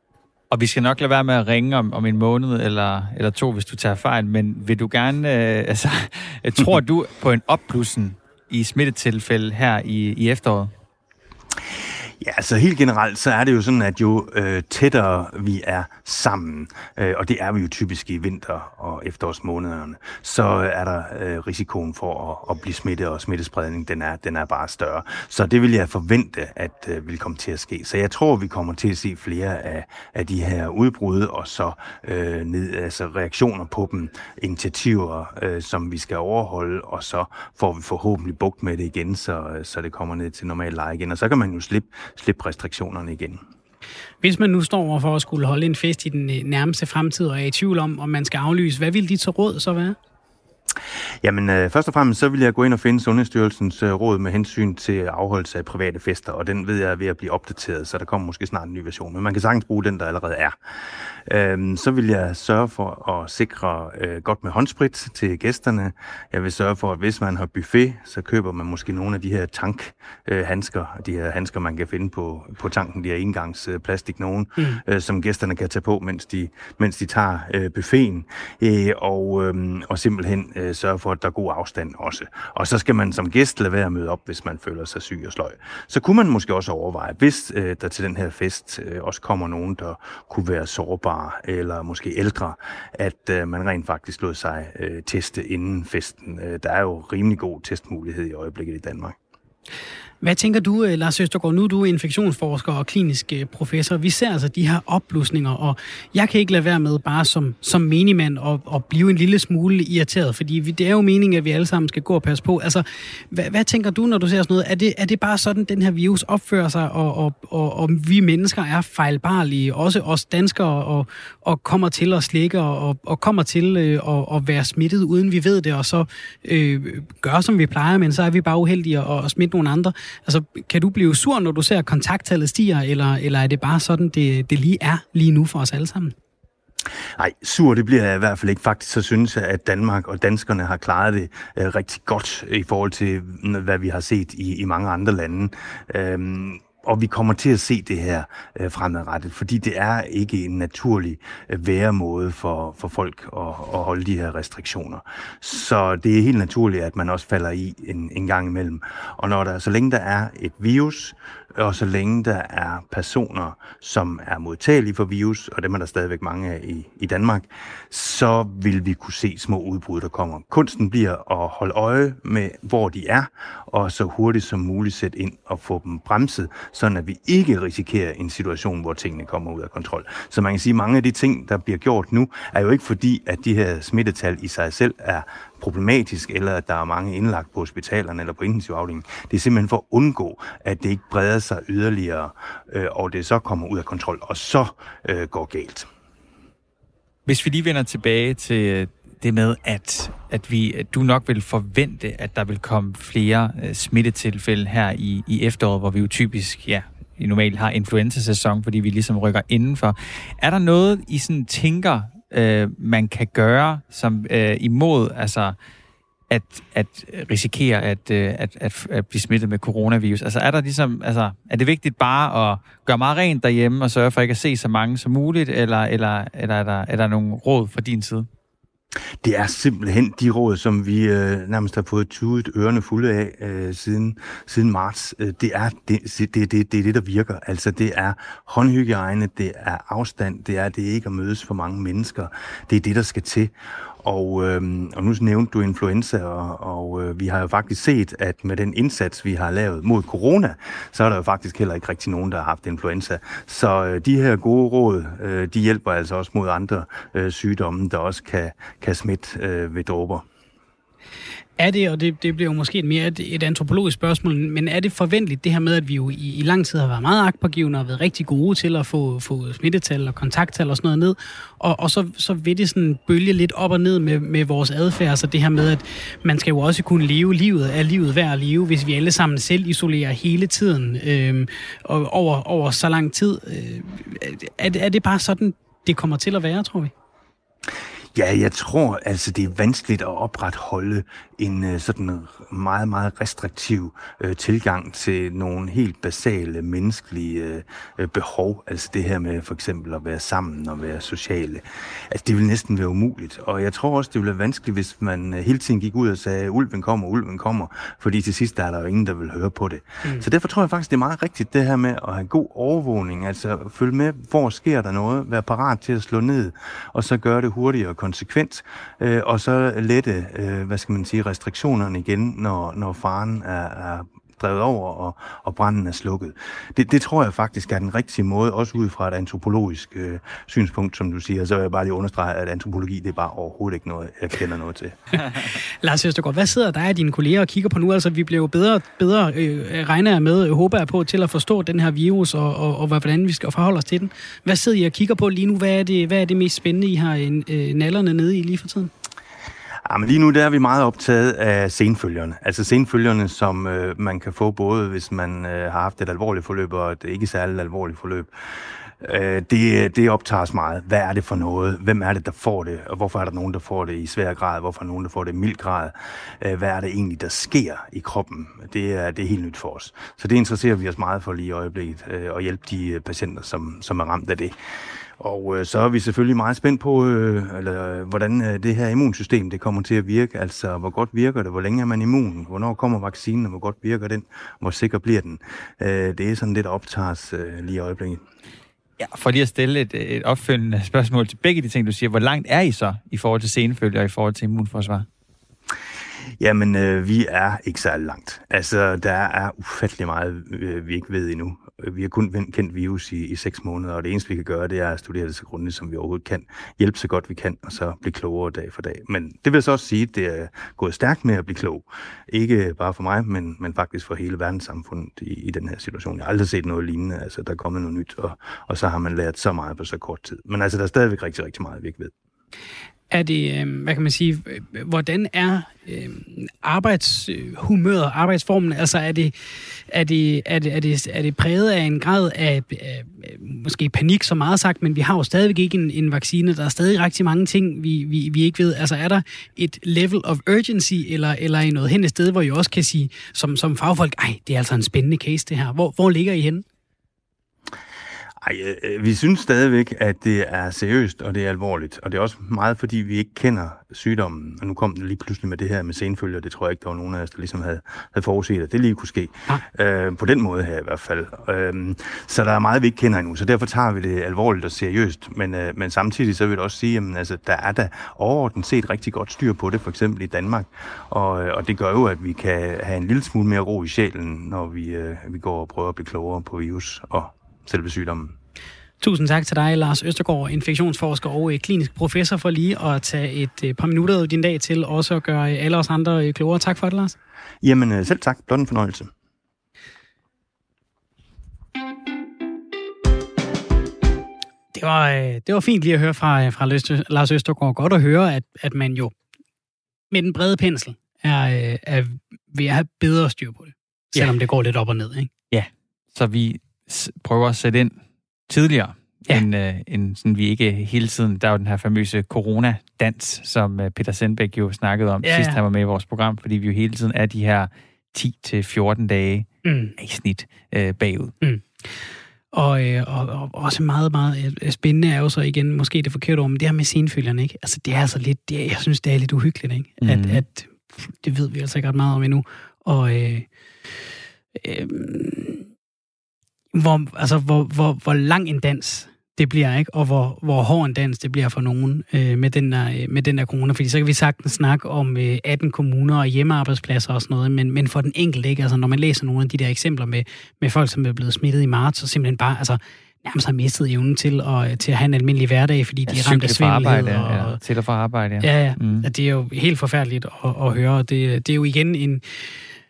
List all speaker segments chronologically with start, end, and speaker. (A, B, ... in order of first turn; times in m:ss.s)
0:00.5-0:10.7 A
0:12.2-0:43.4 B
0:44.2-0:50.0 C
0:51.2-1:00.6 B
1:01.3-1:39.2 B
1:40.2-2:16.2 C
2:17.2-3:15.9 B
3:17.3-3:35.6 A
3:36.3-3:48.3 A
3:49.2-4:20.2 B
4:21.6-4:46.9 C
4:48.2-5:35.2 B
5:35.4-5:48.9 C
5:49.9-5:58.3 B
5:59.0-6:14.6 B
6:15.2-6:28.2 B
6:29.0-6:35.1 A
6:36.4-7:02.1 B
7:03.1-7:09.3 C
7:09.9-7:26.6 C
7:28.4-7:58.4 B
7:59.0-8:07.2 C
8:07.6-8:09.1 B
8:14.7-8:19.1 C
8:20.1-8:25.3 C
8:25.5-8:41.3 A
8:35.2-8:35.6 C
8:39.6-8:40.0 C
8:41.4-8:53.5 C
8:50.0-8:50.4 A
8:54.6-8:55.7 C
8:56.7-9:17.6 C
9:16.1-9:19.1 A
9:18.4-9:22.5 C